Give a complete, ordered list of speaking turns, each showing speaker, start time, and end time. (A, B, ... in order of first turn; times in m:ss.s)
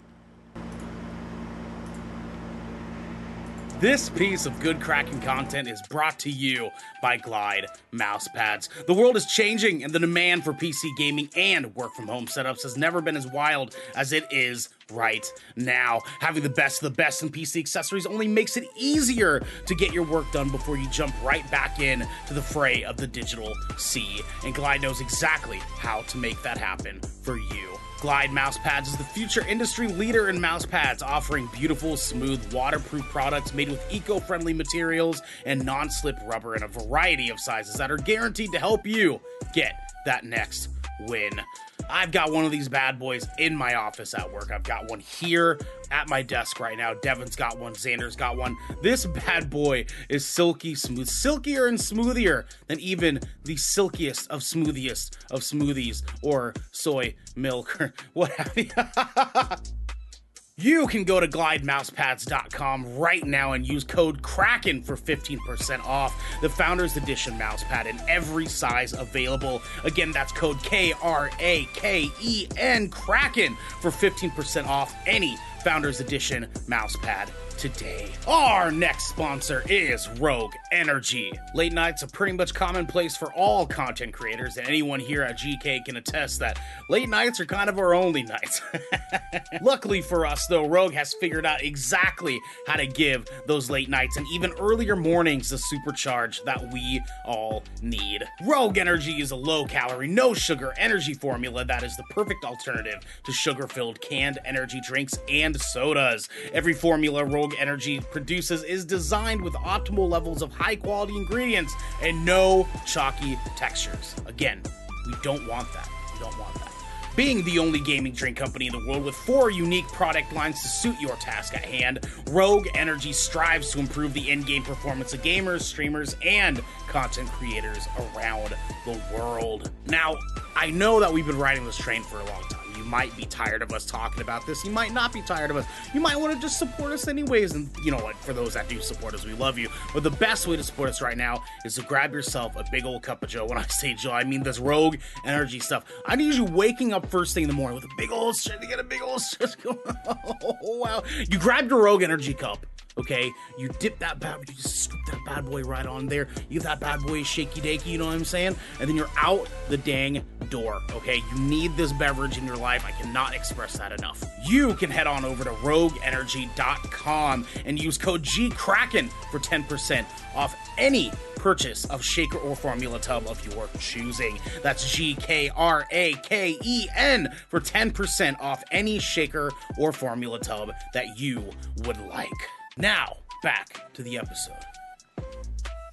0:03.8-0:59.6 A
1:00.6-3:04.6 A